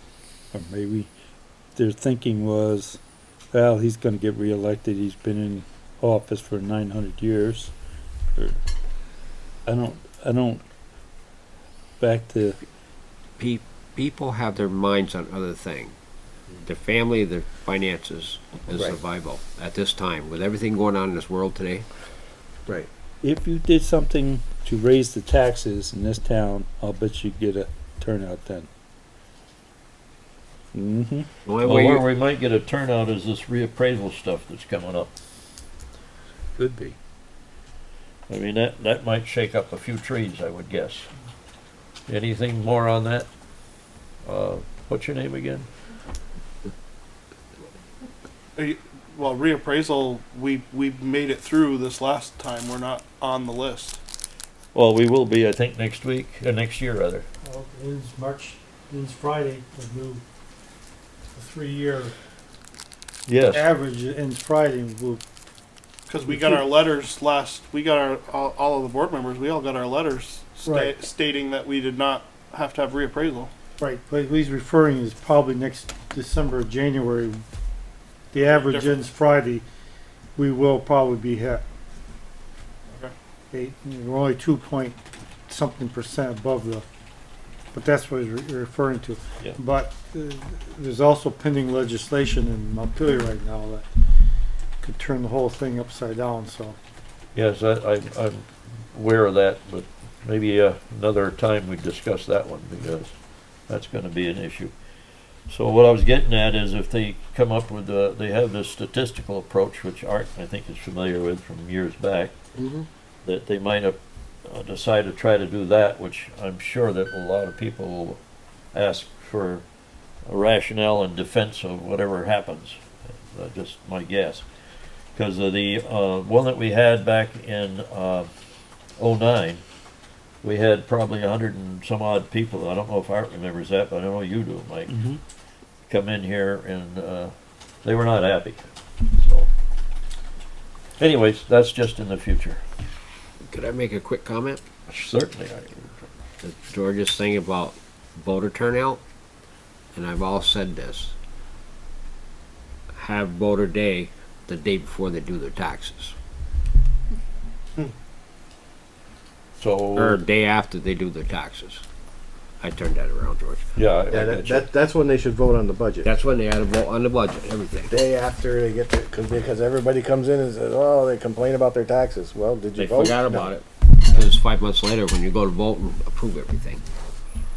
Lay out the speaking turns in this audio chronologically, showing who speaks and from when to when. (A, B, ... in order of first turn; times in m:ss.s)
0:00.5-0:01.1 A
0:01.8-0:03.0 A
0:03.5-0:07.7 A
0:09.7-0:10.6 A
0:12.0-0:12.6 A
0:13.4-0:15.9 B
0:16.6-0:21.9 B
0:18.7-0:19.0 C
0:23.2-0:28.7 A
0:30.7-0:31.3 A
0:31.5-0:32.0 B
0:31.6-0:35.1 D
0:36.6-0:37.0 A
0:38.3-0:41.1 D
0:42.1-0:43.3 D
0:44.2-0:45.7 D
0:48.6-0:54.0 E
0:54.7-0:57.3 D
0:57.4-1:00.2 F
1:01.4-1:02.1 F
1:03.3-1:03.7 D
1:03.5-1:05.2 F
1:06.1-1:13.5 E
1:06.3-1:06.6 F
1:13.8-1:17.4 F
1:18.3-1:19.6 F
1:18.4-1:19.0 E
1:20.4-1:21.6 F
1:22.9-1:23.1 E
1:23.5-1:25.0 F
1:25.5-1:26.8 F
1:27.7-1:33.9 F
1:34.8-1:36.8 F
1:37.4-1:43.1 D
1:43.7-1:44.7 D
1:45.5-1:52.3 D
1:53.2-1:58.2 D
1:58.7-1:59.6 D
2:00.3-2:04.4 D
2:05.2-2:08.3 D
2:09.0-2:09.6 D
2:10.4-2:15.0 D
2:14.9-2:15.2 A
2:15.9-2:17.3 D
2:17.8-2:19.5 D
2:21.0-2:22.6 D
2:23.4-2:24.6 B
2:24.9-2:26.1 D
2:26.4-2:29.0 B
2:30.0-2:31.1 B
2:33.0-2:36.2 B
2:39.6-2:40.2 D
2:40.0-2:41.8 B
2:42.6-2:43.6 B
2:43.8-2:44.7 D
2:44.1-2:46.1 C
2:46.0-2:47.9 B
2:47.9-2:53.5 C
2:52.8-2:56.8 B